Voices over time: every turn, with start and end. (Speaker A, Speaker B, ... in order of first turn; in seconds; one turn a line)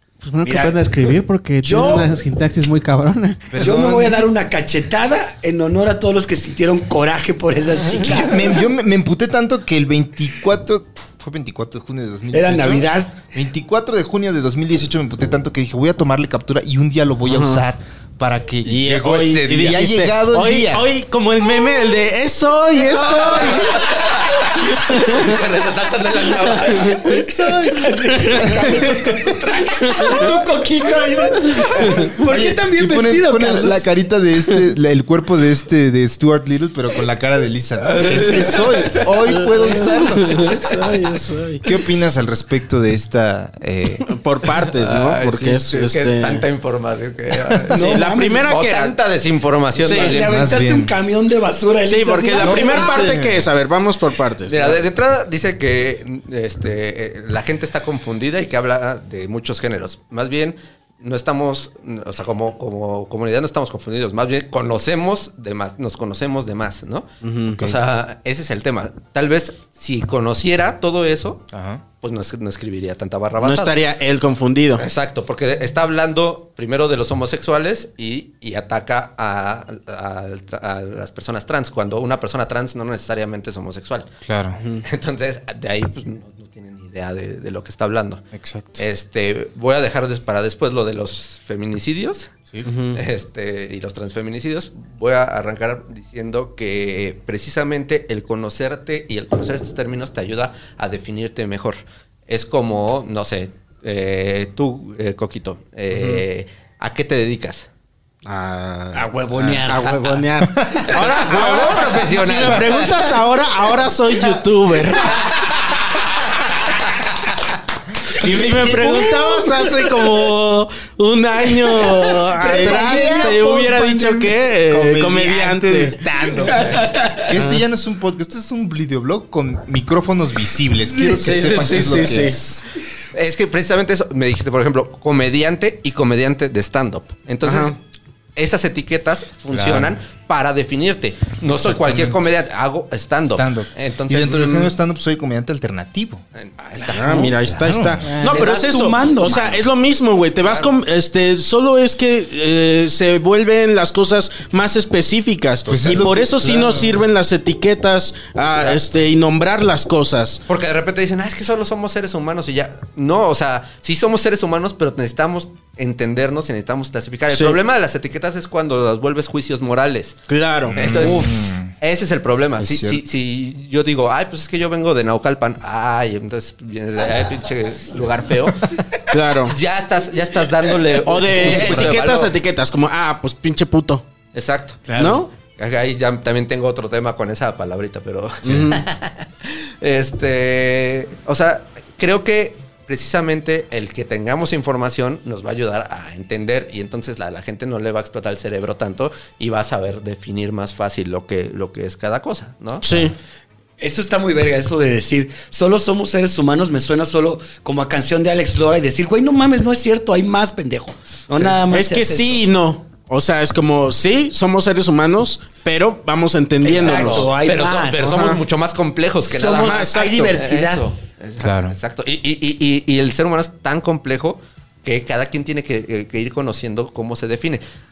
Speaker A: 0.2-3.5
Speaker B: 0.4-0.9
Speaker B: 1.6-2.2
Speaker C: 3.5-4.2
Speaker B: 3.6-8.6
Speaker C: 8.0-18.9
Speaker B: 12.3-13.2
Speaker D: 17.3-17.6
Speaker D: 18.6-23.8
Speaker E: 18.8-19.8
Speaker C: 19.5-20.9
Speaker E: 23.0-27.3
Speaker D: 24.7-25.3
Speaker D: 26.6-26.9
Speaker B: 27.0-33.9
Speaker C: 27.2-27.8
Speaker C: 28.4-29.3
Speaker D: 29.9-30.2
Speaker C: 32.0-40.4
Speaker E: 37.8-39.1
Speaker E: 39.7-40.9
Speaker D: 39.9-41.6
Speaker C: 41.6-44.0
Speaker D: 44.1-46.4
Speaker E: 44.7-50.4
Speaker D: 47.7-49.0
Speaker B: 47.7-48.5
Speaker D: 49.8-50.2
Speaker B: 49.9-53.0
Speaker C: 50.2-50.9
Speaker D: 51.9-54.8
Speaker C: 52.4-53.5
Speaker E: 54.5-71.4
Speaker D: 67.2-67.7
Speaker C: 71.5-71.8
Speaker E: 72.0-73.8
Speaker D: 73.4-74.8
Speaker E: 74.8-84.1
Speaker C: 84.2-84.6
Speaker D: 84.6-84.8
Speaker E: 84.8-88.2
Speaker C: 88.3-88.8
Speaker E: 88.8-92.3
Speaker D: 92.6-93.0
Speaker E: 92.9-107.7
Speaker D: 105.9-106.2
Speaker D: 108.2-115.2
Speaker B: 108.9-109.9
Speaker E: 110.7-112.9
Speaker E: 115.1-116.8
Speaker C: 118.1-119.6
Speaker D: 118.2-126.0
Speaker C: 122.4-132.6
Speaker B: 122.4-124.3
Speaker D: 126.5-127.6
Speaker D: 131.0-132.4
Speaker E: 133.1-137.8
Speaker D: 137.4-137.8
Speaker E: 138.3-144.7
Speaker C: 139.5-140.0
Speaker C: 141.5-142.3
Speaker C: 143.3-146.2
Speaker E: 146.3-147.3
Speaker D: 146.8-160.4
Speaker C: 147.4-148.1
Speaker B: 148.1-149.6
Speaker E: 150.4-150.7
Speaker C: 155.7-157.0
Speaker E: 158.5-158.8
Speaker E: 160.5-170.2
Speaker D: 167.3-167.6
Speaker D: 170.3-171.3
Speaker E: 170.7-182.3
Speaker C: 170.7-171.7
Speaker C: 172.6-173.0
Speaker D: 179.1-179.6
Speaker D: 181.0-184.0
Speaker C: 181.3-182.1
Speaker E: 184.3-203.1
Speaker B: 184.9-185.2
Speaker D: 185.0-185.3
Speaker D: 188.4-188.8
Speaker D: 202.8-203.1
Speaker B: 203.8-212.4
Speaker D: 211.3-217.3
Speaker E: 216.6-227.6
Speaker B: 216.6-218.2
Speaker D: 218.0-218.4
Speaker B: 219.3-220.9
Speaker D: 219.6-220.0
Speaker C: 221.4-221.8